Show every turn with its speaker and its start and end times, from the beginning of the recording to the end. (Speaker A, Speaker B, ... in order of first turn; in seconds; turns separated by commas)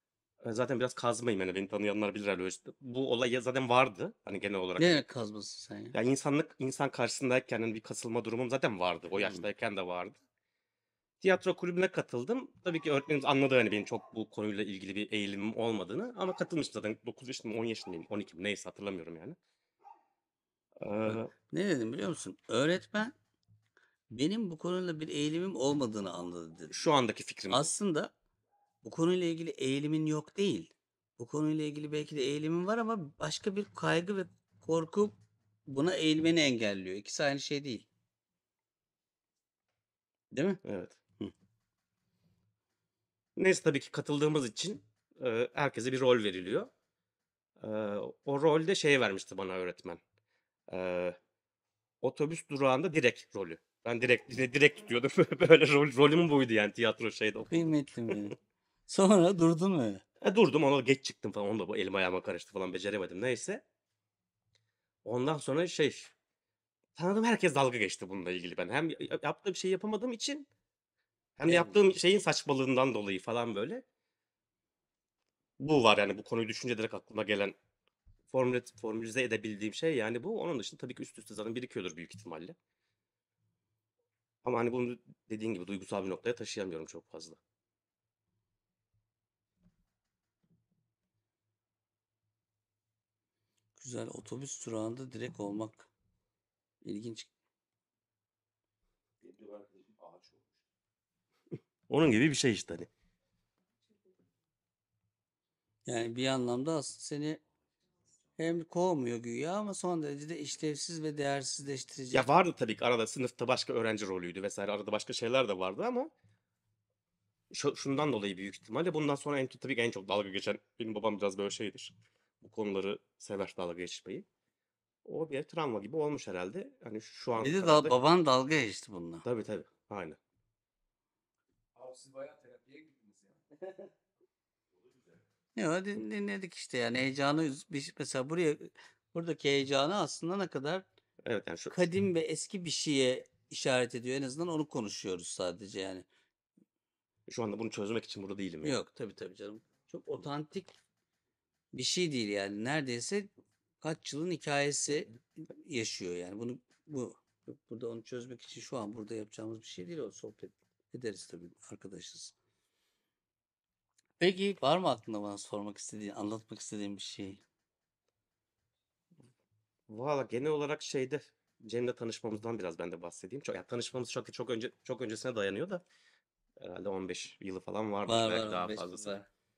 Speaker A: 0.4-5.0, Speaker B: 4.8-6.0, Speaker A: 5.9-10.2, Speaker A: 11.2-19.4, Speaker A: 20.8-21.3, Speaker B: 21.1-23.1, Speaker B: 24.1-26.8, Speaker A: 26.7-27.7, Speaker B: 27.5-28.1, Speaker B: 28.8-37.9, Speaker B: 40.3-40.6, Speaker A: 40.6-41.0, Speaker A: 43.4-46.7, Speaker A: 47.6-50.0, Speaker A: 50.7-51.2, Speaker A: 52.0-58.1, Speaker B: 57.5-60.0, Speaker A: 60.2-63.6, Speaker A: 65.0-66.1, Speaker A: 67.0-70.5, Speaker A: 71.4-73.8, Speaker B: 71.5-71.8, Speaker A: 75.6-77.5, Speaker A: 78.3-82.6, Speaker A: 84.4-87.4, Speaker B: 93.8-95.9, Speaker B: 96.8-97.3, Speaker C: 99.2-100.5, Speaker A: 101.9-102.9, Speaker B: 105.9-107.4, Speaker B: 108.4-112.3, Speaker A: 112.1-116.1, Speaker A: 117.5-124.3, Speaker A: 125.0-128.0, Speaker B: 127.4-129.2, Speaker A: 129.2-130.2, Speaker C: 131.8-133.9, Speaker B: 135.6-140.8, Speaker A: 141.2-141.8, Speaker B: 141.7-146.1, Speaker A: 147.3-148.8, Speaker B: 148.6-150.8, Speaker B: 151.7-153.3, Speaker B: 153.8-162.3, Speaker B: 164.2-167.4, Speaker A: 169.9-175.8, Speaker A: 176.6-179.2, Speaker B: 178.1-179.3